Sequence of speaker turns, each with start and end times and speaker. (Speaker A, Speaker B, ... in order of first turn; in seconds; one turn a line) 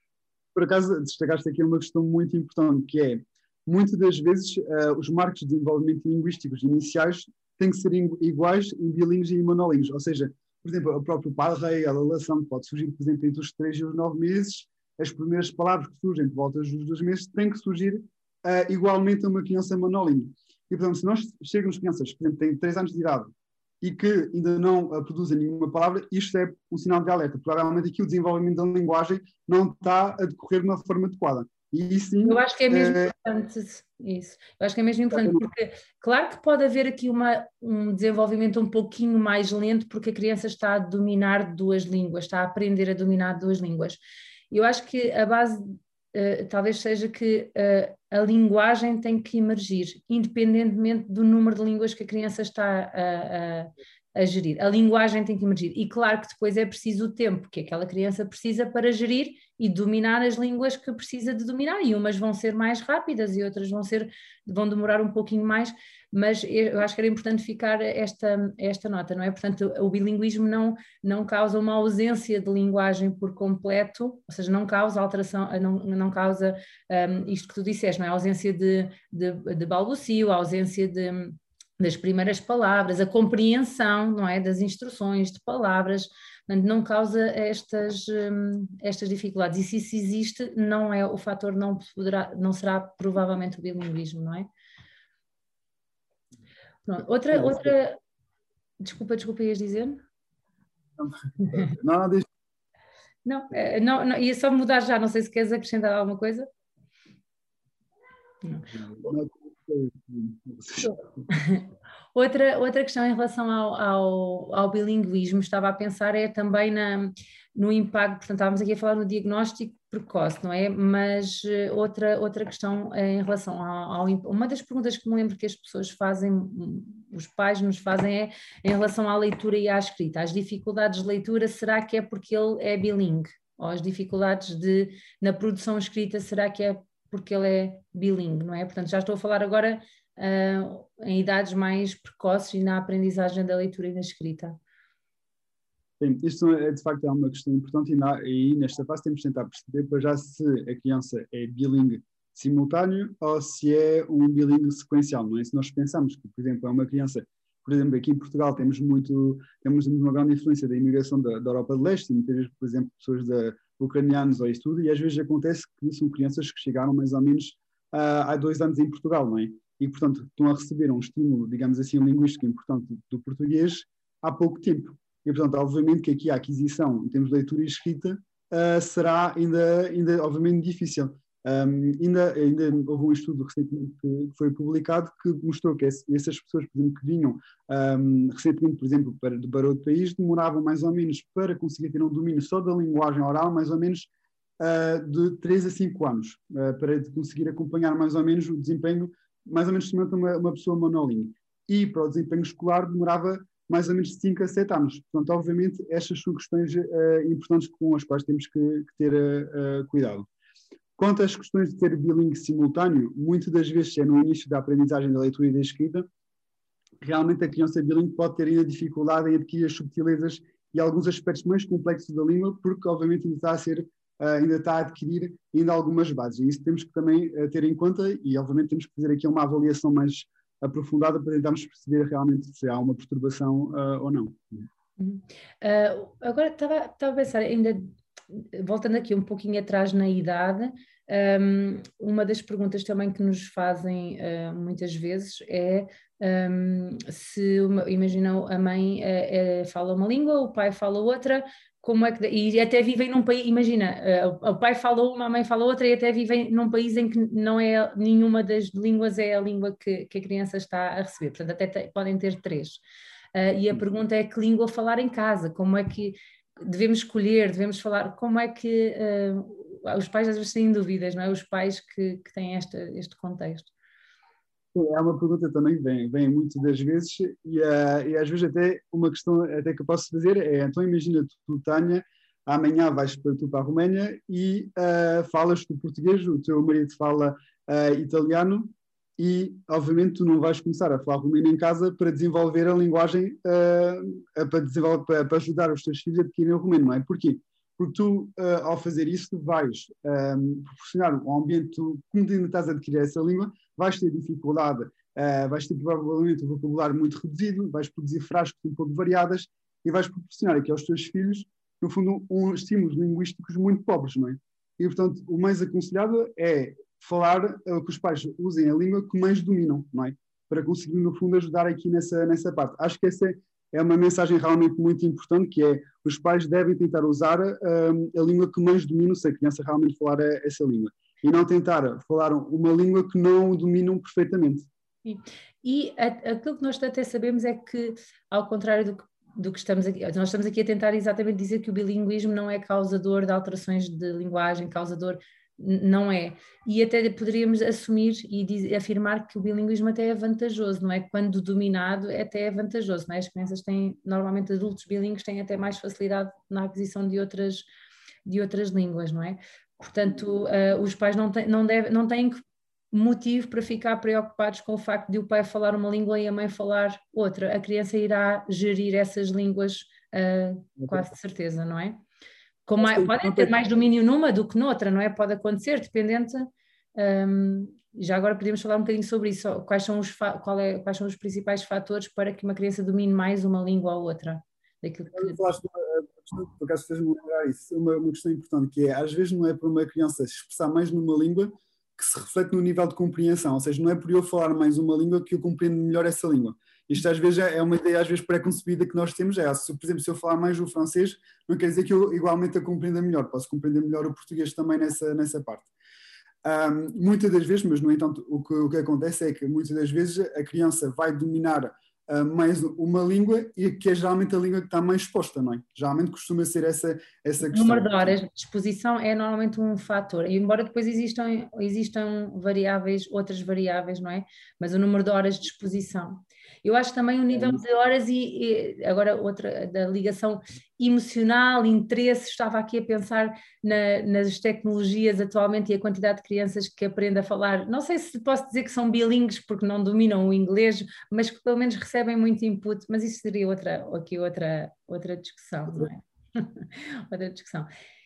Speaker A: 0.5-33.1
Speaker B: 32.2-44.0
Speaker A: 35.1-35.4
Speaker B: 44.5-94.5
Speaker B: 96.8-98.0
Speaker A: 97.3-97.7
Speaker B: 98.8-100.0
Speaker A: 101.0-102.2
Speaker B: 103.2-106.5
Speaker B: 108.4-108.7
Speaker A: 108.7-110.9
Speaker B: 110.8-144.6
Speaker A: 146.0-210.3
Speaker A: 211.0-216.1
Speaker A: 217.0-234.7
Speaker B: 235.0-262.8
Speaker B: 263.3-273.7
Speaker A: 274.7-334.7
Speaker B: 335.0-357.6
Speaker B: 358.2-362.4
Speaker B: 362.9-372.0
Speaker B: 372.6-385.5
Speaker A: 372.8-373.5
Speaker A: 385.1-405.7
Speaker A: 406.4-418.2
Speaker B: 417.5-447.7
Speaker A: 427.3-427.6